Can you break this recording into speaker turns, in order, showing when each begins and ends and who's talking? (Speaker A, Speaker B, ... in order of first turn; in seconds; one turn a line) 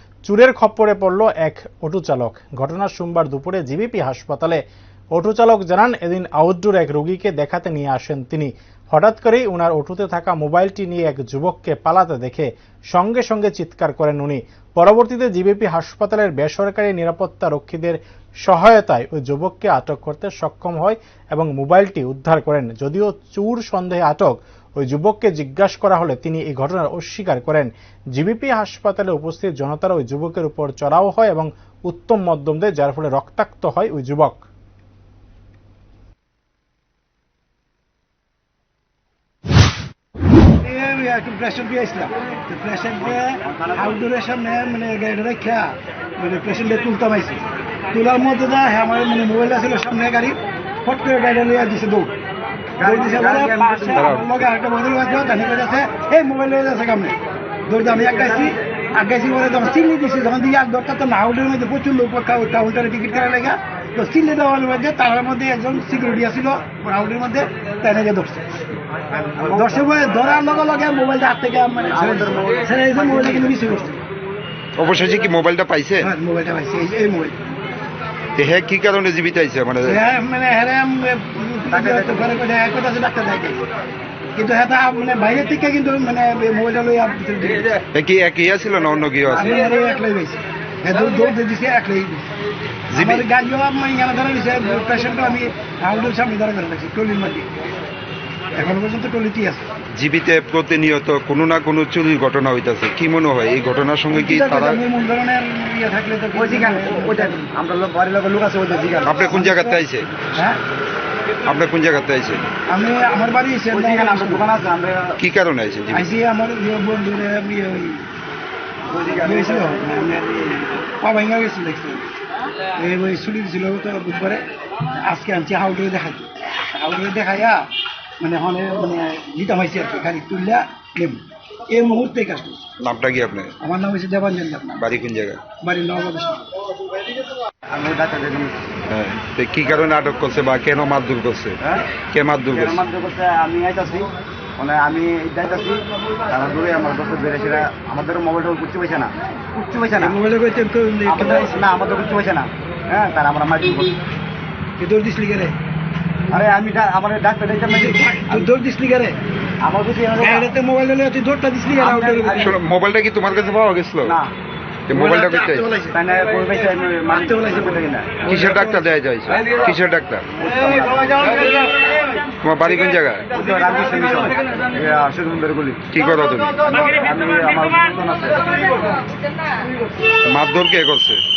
Speaker A: 0.3-4.6
Speaker A: 5.2-34.5
Speaker B: 40.6-47.4
Speaker C: 43.0-44.0
Speaker B: 47.9-52.1
Speaker C: 52.8-54.1
Speaker B: 52.8-68.5
Speaker D: 54.0-54.4
Speaker C: 58.1-58.5
Speaker C: 69.1-69.8
Speaker B: 69.5-74.0
Speaker C: 71.9-73.8
Speaker D: 74.8-76.1
Speaker B: 76.0-77.4
Speaker D: 78.4-80.0
Speaker B: 79.8-83.6
Speaker C: 81.7-82.4
Speaker B: 84.3-87.8
Speaker D: 87.9-89.6
Speaker B: 89.3-92.2
Speaker D: 92.9-93.2
Speaker B: 93.0-97.5
Speaker B: 98.6-99.6
Speaker D: 99.9-104.8
Speaker B: 104.1-107.5
Speaker C: 106.3-109.3
Speaker D: 109.0-110.1
Speaker B: 109.3-109.8
Speaker D: 111.5-112.4
Speaker B: 112.7-114.5
Speaker C: 113.7-115.2
Speaker D: 115.2-116.1
Speaker B: 115.9-118.0
Speaker C: 118.9-119.8
Speaker B: 119.2-122.1
Speaker B: 122.8-124.4
Speaker B: 125.0-127.7
Speaker B: 128.2-132.7
Speaker D: 132.8-133.5
Speaker B: 133.6-134.8
Speaker D: 134.8-135.4
Speaker B: 135.6-136.4
Speaker C: 137.7-138.7
Speaker D: 138.9-141.6
Speaker D: 142.1-142.8
Speaker C: 142.5-150.2
Speaker B: 150.0-151.6
Speaker C: 151.1-154.0
Speaker B: 154.8-155.6
Speaker C: 156.3-158.5
Speaker B: 157.8-159.2
Speaker C: 159.6-160.5
Speaker B: 160.2-162.5
Speaker C: 161.8-162.6
Speaker D: 162.3-164.2
Speaker C: 164.0-164.3
Speaker D: 164.9-165.7
Speaker B: 164.9-166.0
Speaker C: 165.9-168.2
Speaker B: 167.2-168.8
Speaker D: 168.3-170.2
Speaker C: 170.4-171.4
Speaker D: 172.4-173.3
Speaker C: 173.3-175.8
Speaker D: 175.9-176.6
Speaker C: 176.8-178.9
Speaker D: 180.3-181.2